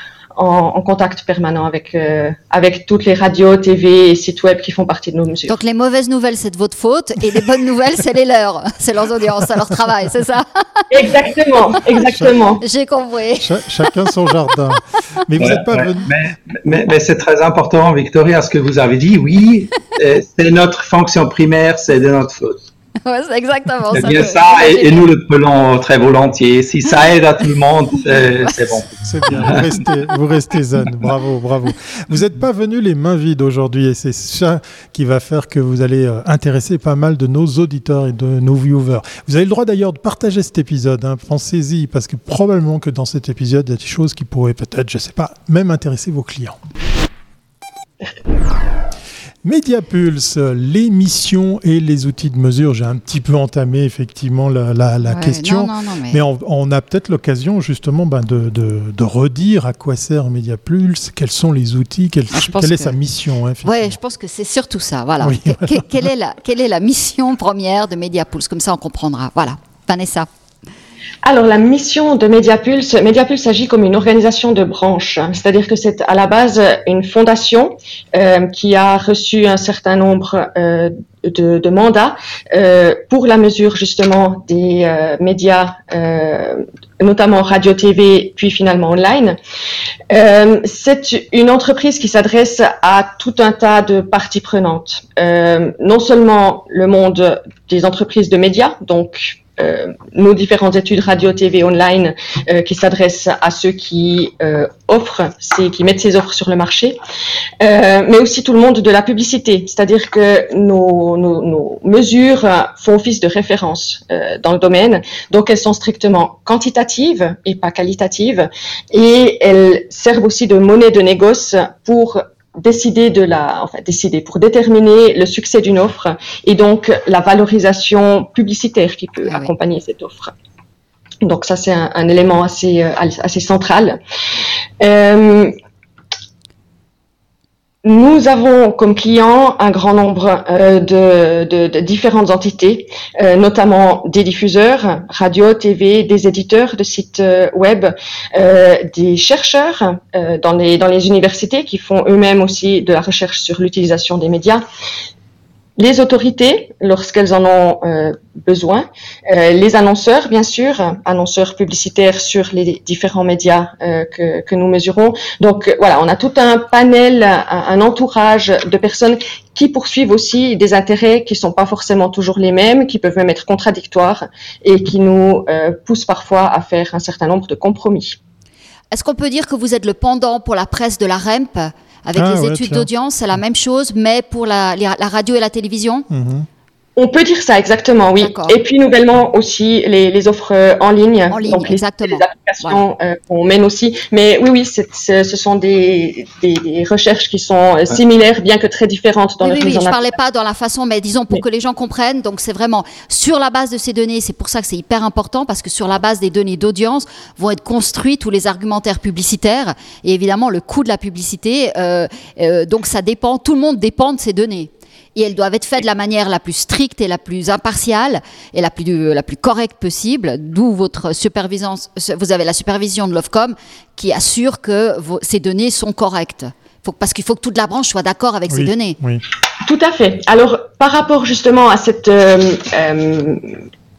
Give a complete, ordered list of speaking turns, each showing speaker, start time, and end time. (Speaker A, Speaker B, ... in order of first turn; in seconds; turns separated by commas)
Speaker A: 0.3-5.6, Speaker B: 5.5-11.1, Speaker A: 10.9-12.6, Speaker B: 12.6-13.6, Speaker C: 13.4-16.1, Speaker D: 15.4-22.6, Speaker B: 23.0-25.1, Speaker D: 23.9-29.6, Speaker C: 29.0-46.6, Speaker C: 49.4-64.0, Speaker B: 55.1-56.2, Speaker B: 62.3-62.9, Speaker B: 63.6-70.3, Speaker C: 65.2-66.1, Speaker A: 71.2-89.4, Speaker A: 90.1-107.0, Speaker A: 107.6-130.3, Speaker A: 131.2-134.0, Speaker A: 134.8-135.5, Speaker A: 137.8-154.6, Speaker A: 155.8-178.2, Speaker B: 178.9-186.1, Speaker C: 182.2-182.9, Speaker C: 186.1-186.5, Speaker A: 187.0-200.1, Speaker B: 188.2-188.5, Speaker B: 191.3-192.8, Speaker B: 199.4-229.0, Speaker C: 228.5-229.2, Speaker A: 229.6-233.6